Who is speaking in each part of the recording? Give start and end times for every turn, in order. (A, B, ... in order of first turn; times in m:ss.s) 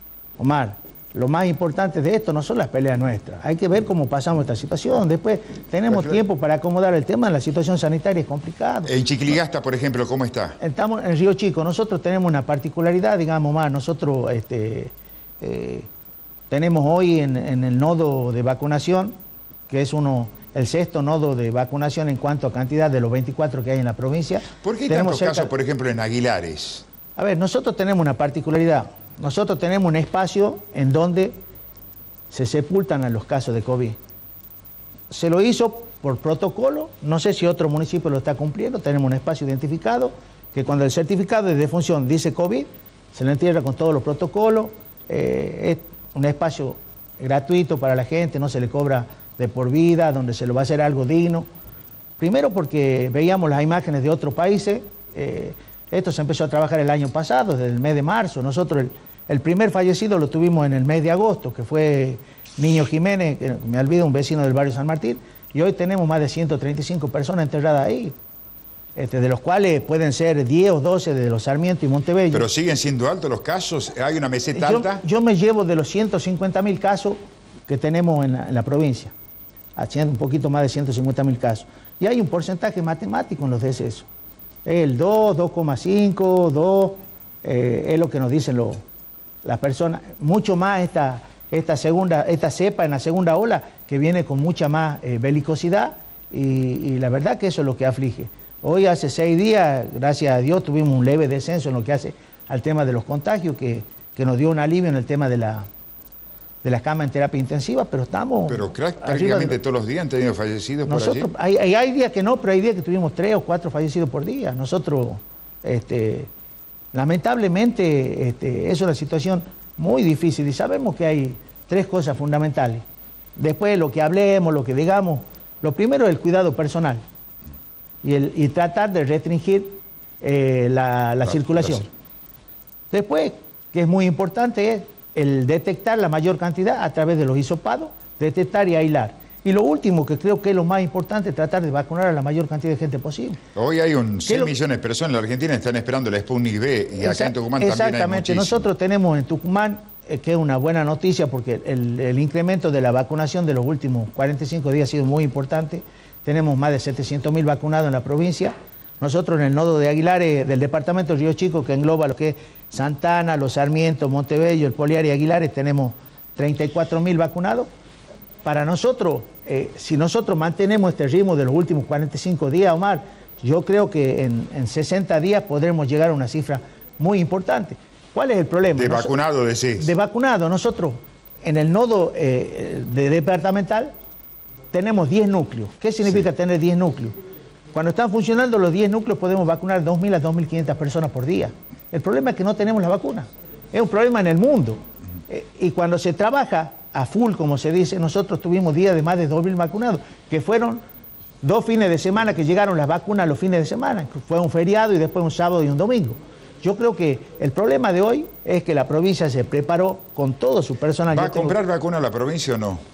0:00.4-0:08.9 A
0:05.9-0:06.2 B
0:08.9-0:10.6 B
0:10.6-0:15.9 A
0:16.5-0:19.2 A
0:19.7-0:25.5 A
0:24.6-0:26.8 B
0:27.2-0:31.3 A
0:32.3-0:34.0 A
0:35.1-0:51.5 A
0:52.2-1:08.1 A
1:09.0-1:12.5 A
1:12.3-1:15.0 B
1:14.5-1:19.1 A
1:19.8-1:24.1 A
1:24.6-1:28.8 A
1:29.4-1:45.7 A
1:46.6-1:49.6 A
1:48.5-1:51.3 B
1:50.9-1:56.3 A
1:56.9-2:02.8 A
2:03.4-2:07.0 A
2:08.0-2:11.9 A
2:12.9-2:23.4 A
2:23.6-2:28.6 B
2:24.3-2:24.5 A
2:27.0-2:47.7 A
2:48.4-2:59.1 A
2:58.8-2:59.9 B
2:59.8-3:03.9 A
3:04.7-3:07.2 A
3:07.7-3:20.8 A
3:21.4-3:31.6 A
3:31.1-3:32.8 B